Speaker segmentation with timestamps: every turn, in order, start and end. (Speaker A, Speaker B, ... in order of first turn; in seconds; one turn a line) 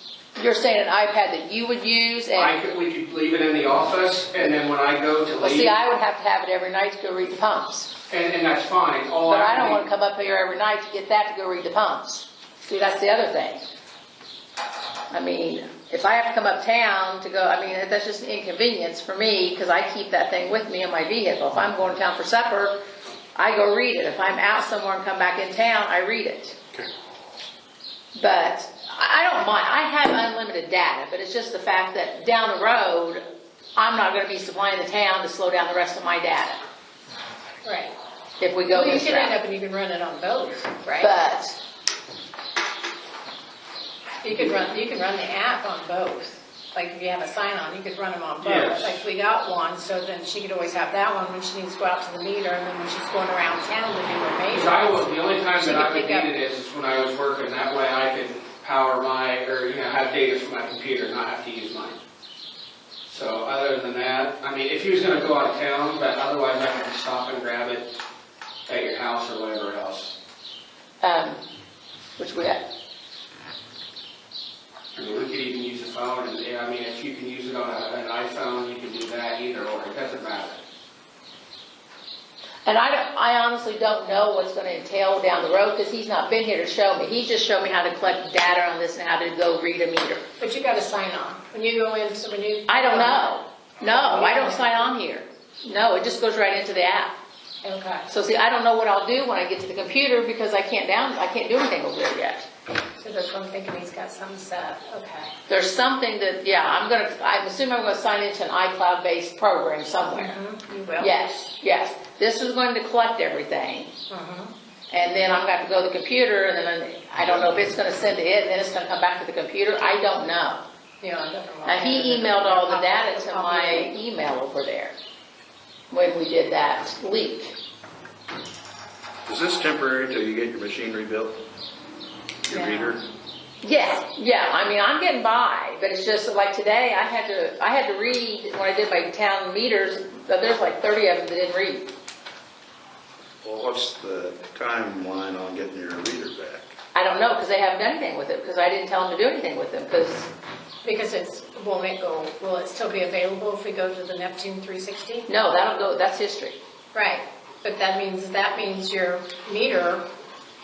Speaker A: 0.4-2.6
Speaker B: 2.4-5.8
Speaker A: 5.4-7.9
Speaker B: 8.1-9.8
Speaker A: 9.3-13.6
Speaker A: 15.1-22.8
Speaker A: 23.4-26.6
Speaker A: 28.1-33.2
Speaker A: 33.8-36.6
Speaker C: 37.6-38.0
Speaker A: 38.4-39.4
Speaker C: 38.7-41.1
Speaker A: 41.0-41.6
Speaker C: 44.2-55.1
Speaker B: 48.4-49.0
Speaker B: 54.5-62.0
Speaker C: 55.6-56.3
Speaker B: 63.0-67.9
Speaker B: 68.7-70.2
Speaker A: 71.0-71.4
Speaker A: 72.2-72.6
Speaker B: 75.0-80.6
Speaker A: 82.7-90.2
Speaker C: 90.4-94.9
Speaker A: 92.7-97.1
Speaker C: 97.6-98.1
Speaker A: 98.1-102.5
Speaker C: 103.0-105.3
Speaker A: 105.5-110.4
Speaker C: 110.2-111.1
Speaker A: 111.0-113.9
Speaker C: 114.1-114.5
Speaker A: 114.9-120.6
Speaker C: 121.0-123.9
Speaker A: 121.7-125.0
Speaker A: 125.9-127.6
Speaker D: 129.3-131.4
Speaker D: 132.5-133.0
Speaker C: 132.5-132.9
Speaker A: 133.6-141.9
Speaker D: 143.4-146.7
Speaker A: 146.9-150.3
Speaker C: 150.8-155.3
Speaker A: 155.3-156.6
Speaker C: 156.9-160.1